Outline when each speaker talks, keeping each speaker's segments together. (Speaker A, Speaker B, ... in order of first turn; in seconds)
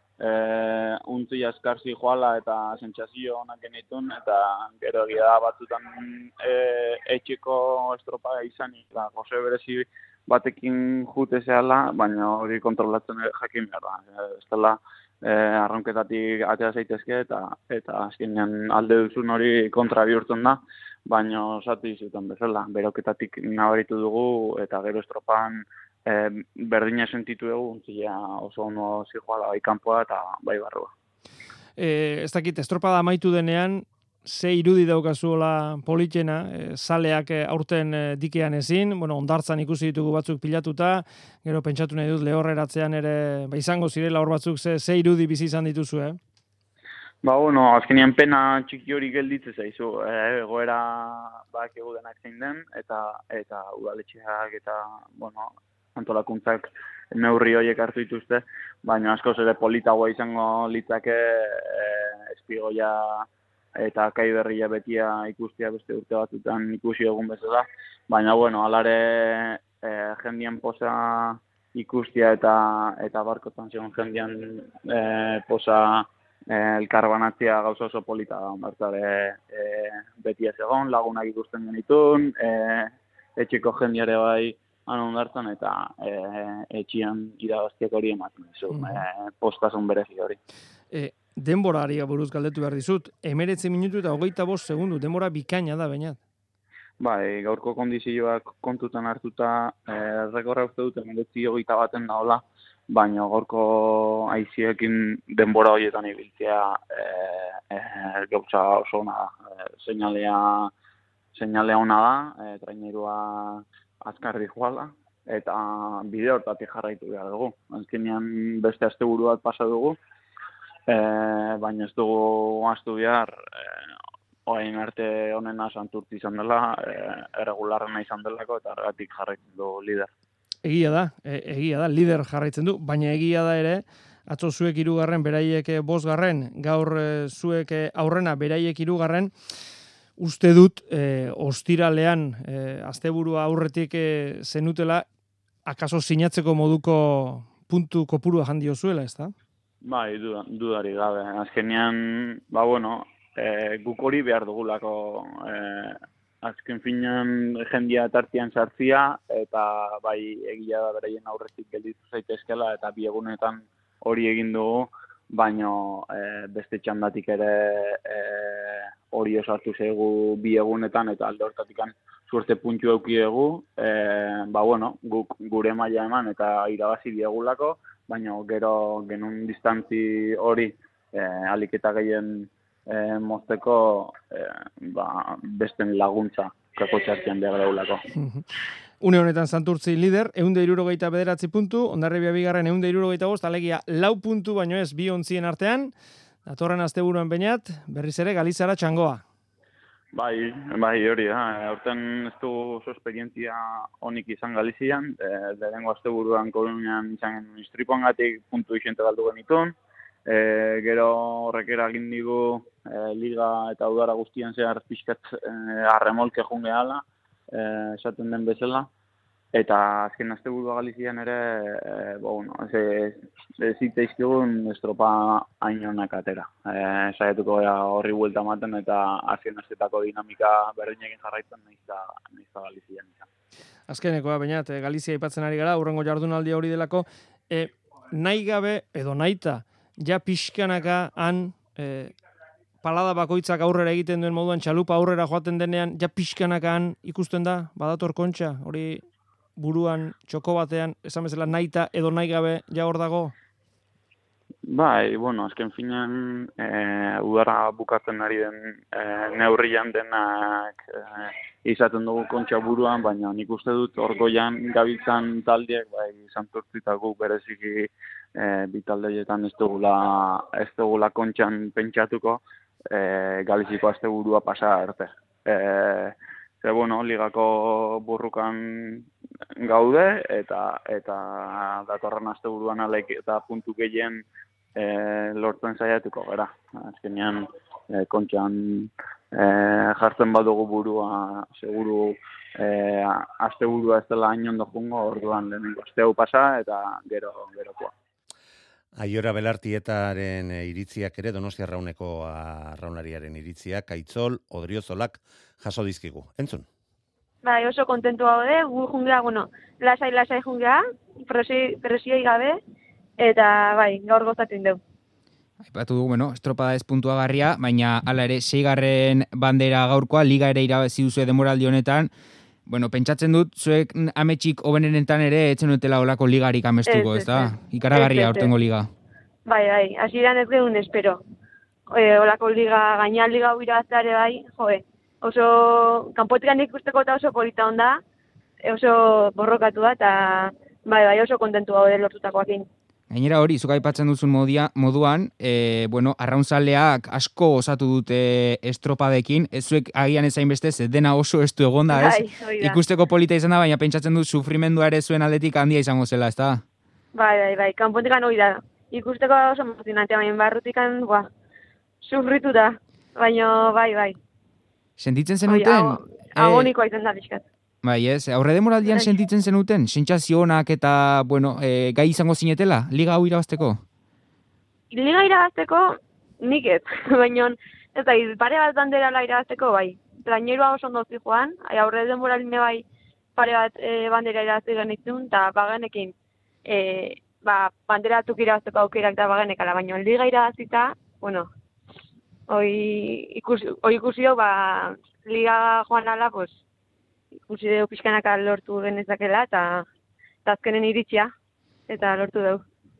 Speaker A: 0.2-30.9, 47.2-63.3, 63.8-90.4, 97.0-110.7, 111.3-120.0, 120.9-123.9, 124.5-130.1, 149.8-188.0, 200.1-209.7, 210.3-218.9, 219.5-233.3, 254.7-284.2, 284.8-297.9
Speaker B: 31.8-46.2, 88.7-89.1, 90.9-96.2, 130.6-139.3, 140.2-145.1, 145.7-149.3, 188.2-188.4, 189.0-195.9, 196.4-199.2, 233.9-242.1, 242.8-249.0, 249.6-253.3
Speaker C: 299.0-306.6
Speaker D: 307.4-312.6, 313.2-314.8, 326.9-328.5, 329.4-331.2, 331.9-338.0, 338.6-342.7, 351.9-352.8, 357.1-361.3, 362.0-364.2, 365.5-367.4, 368.8-369.1, 374.9-382.8, 383.4-386.1, 386.6-391.5, 392.5-396.6, 397.5-399.9, 400.4-401.3, 401.9-402.6
Speaker E: 315.6-322.1, 322.6-328.9, 343.1-356.6, 365.0-366.7, 367.8-373.8